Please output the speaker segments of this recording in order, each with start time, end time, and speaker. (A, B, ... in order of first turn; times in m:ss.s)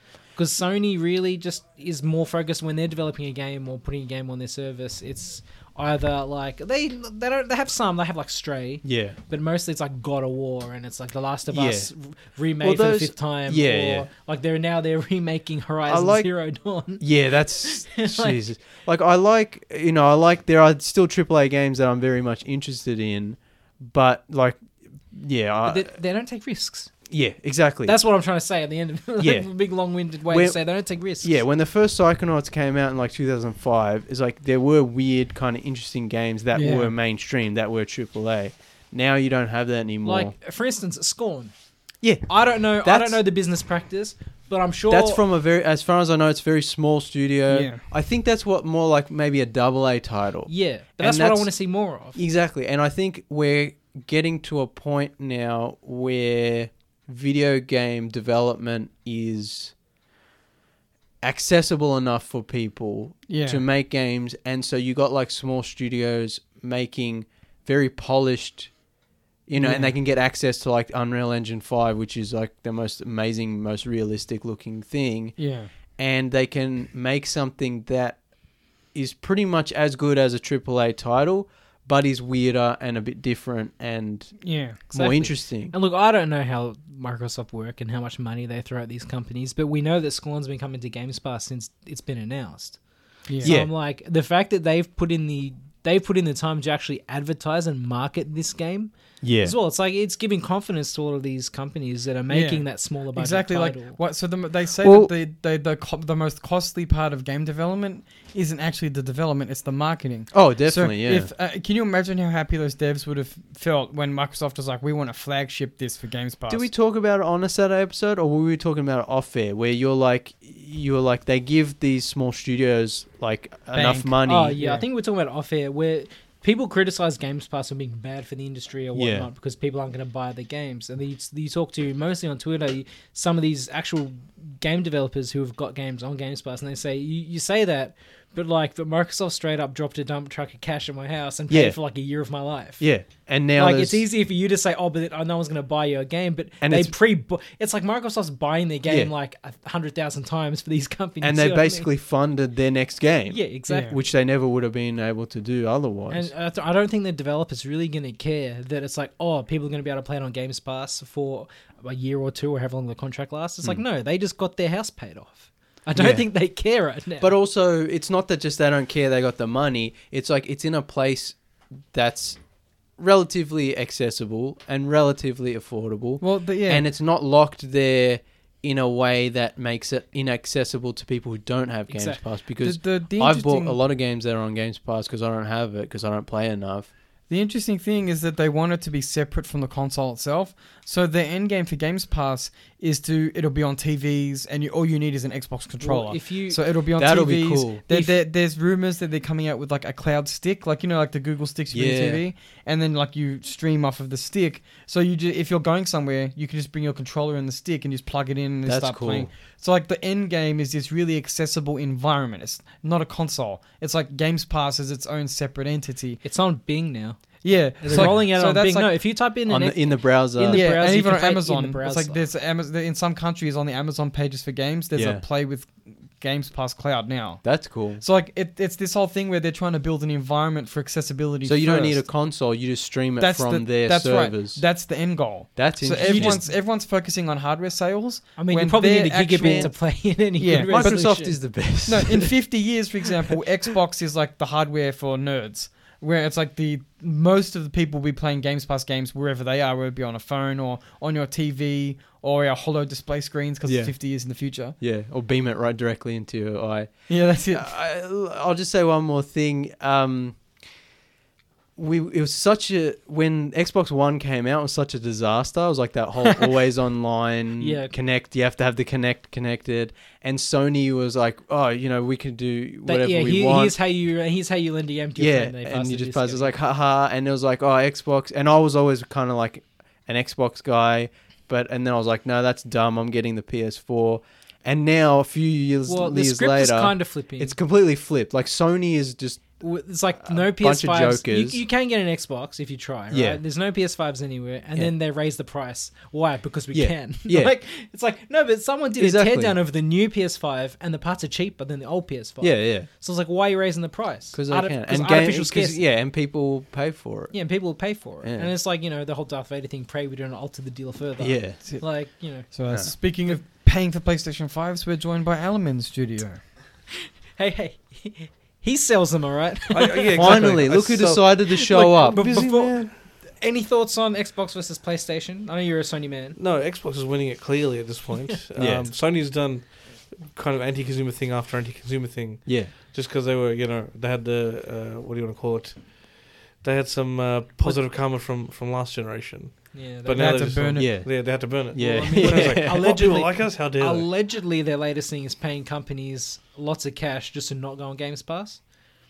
0:00.3-0:17.0 A
0:08.8-0:09.2 B
0:11.5-0:11.9 B
0:12.6-0:14.1 B
0:15.9-0:16.3 B
0:17.0-0:25.9 B
0:17.6-0:18.4 A
0:25.6-0:26.9 A
0:27.1-0:28.0 B
0:27.8-0:31.4 A
0:29.2-0:29.5 B
0:30.3-0:30.6 B
0:31.2-0:40.3 B
0:36.5-0:36.9 C
0:40.0-0:41.5 A
0:42.0-0:43.2 B
0:42.3-0:45.2 A
0:44.9-0:51.5 B
0:47.5-0:47.8 C
0:50.5-0:52.2 A
0:52.1-0:59.7 B
1:01.2-1:08.7 B
1:03.3-1:03.6 C
1:09.5-1:15.4 B
1:09.6-1:09.9 C
1:15.4-1:15.7 C
1:16.0-1:18.2 B
1:18.9-1:25.7 B
1:24.4-1:24.8 C
1:24.9-1:32.8 A
1:33.3-1:33.5 C
1:33.4-1:44.0 A
1:33.4-1:33.7 B
1:39.2-1:39.5 B
1:42.3-1:56.7 C
1:44.8-1:45.1 B
1:50.3-1:51.3 B
1:56.5-2:04.6 B
2:03.7-2:04.8 C
2:04.2-2:22.9 A
2:08.9-2:09.3 B
2:21.5-2:21.8 B
2:22.8-2:24.0 B
2:23.6-2:31.9 A
2:26.6-2:26.9 B
2:28.8-2:29.1 B
2:31.2-2:36.3 B
2:33.3-2:33.9 A
2:33.7-2:34.0 C
2:36.1-2:47.3 A
2:46.0-2:46.3 B
2:47.2-2:51.4 B
2:51.9-2:52.4 B
2:53.0-3:06.9 B
2:56.2-2:56.8 C
3:01.9-3:02.2 A
3:02.6-3:03.8 C
3:07.3-3:36.2 C
3:15.8-3:16.6 A
3:17.0-3:17.8 B
3:21.7-3:22.2 B
3:28.6-3:29.3 B
3:36.2-3:42.3 A
3:37.4-3:38.9 C
3:37.9-3:38.2 B
3:39.5-3:40.7 B
3:40.5-3:52.1 C
3:44.9-3:45.2 B
3:47.4-3:48.0 B
3:51.4-3:54.7 B
3:53.2-4:14.7 C
3:55.6-3:56.4 B
3:56.0-3:56.4 A
3:58.4-4:01.4 A
3:59.4-3:59.7 B
4:00.6-4:02.3 B
4:13.6-4:14.0 B
4:14.8-4:20.4 B
4:17.1-4:17.7 C
4:21.8-4:33.7 B
4:27.6-4:27.9 A
4:32.8-4:36.5 A
4:35.2-4:49.6 B
4:45.8-4:47.6 A
4:49.6-5:05.8 A
4:50.2-4:51.6 B
4:53.1-4:53.4 B
4:56.7-4:57.5 B
4:59.0-4:59.6 B
5:02.4-5:02.9 B
5:04.3-5:08.5 B
5:07.3-5:12.5 A
5:11.2-5:11.6 B
5:12.4-5:16.4 C
5:17.3-5:20.6 A
5:19.7-5:22.9 D
5:20.2-5:22.5 B
5:21.5-5:26.4 A
5:26.4-5:44.1 D
5:28.6-5:28.9 B
5:32.4-5:32.7 B
5:39.7-5:40.6 A
5:40.1-5:41.0 C
5:40.7-5:43.0 B
5:41.8-5:48.7 A